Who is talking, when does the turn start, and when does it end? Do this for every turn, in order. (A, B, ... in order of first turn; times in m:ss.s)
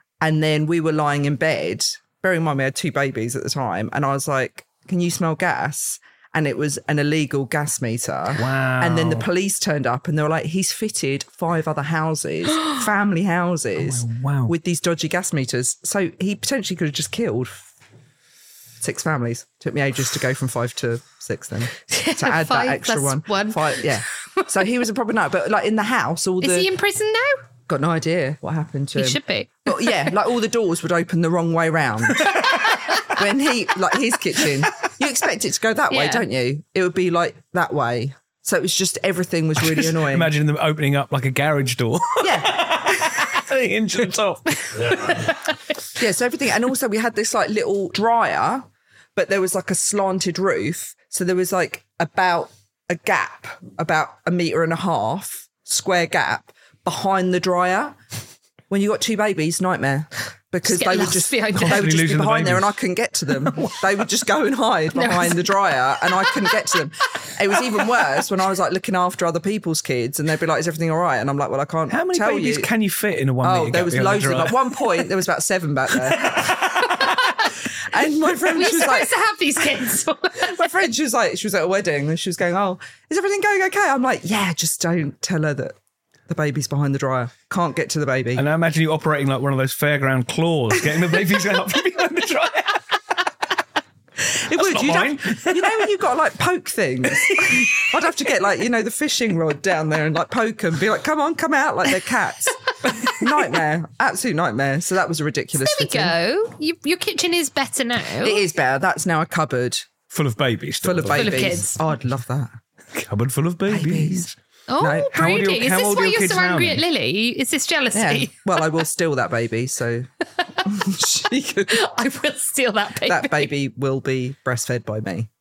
0:00.2-0:17.6 A
0:08.4-0:09.3 B
0:13.8-0:14.5 B
0:18.8-0:26.7 A
0:21.9-0:24.5 C
0:26.4-0:27.4 C
0:27.7-0:32.4 A
0:29.0-0:30.1 C
0:33.0-0:40.3 A
0:35.9-0:36.2 C
0:39.6-0:45.3 B
0:42.2-0:42.7 A
0:45.0-0:45.4 C
0:46.0-0:58.0 A
0:58.7-1:12.7 A
1:00.6-1:01.9 C
1:01.5-1:02.8 B
1:04.9-1:05.5 C
1:11.9-1:14.7 B
1:13.4-1:17.1 A
1:16.2-1:17.0 B
1:17.8-1:19.1 A
1:18.4-1:20.7 C
1:20.4-1:25.8 A
1:26.3-1:28.4 A
1:28.3-1:33.0 B
1:34.4-1:46.1 A
1:34.5-1:35.9 B
1:37.2-1:37.8 B
1:45.6-1:48.4 C
1:48.2-1:49.9 A
1:50.1-1:51.5 B
1:50.8-1:52.5 A
1:51.1-1:51.8 C
1:52.9-1:54.3 B
1:53.7-1:54.3 A
1:54.7-1:58.4 C
1:54.8-1:55.2 A
1:55.1-1:56.8 B
1:57.9-2:00.1 A
2:00.6-2:01.8 A
2:01.7-2:03.5 C
2:03.0-2:05.3 A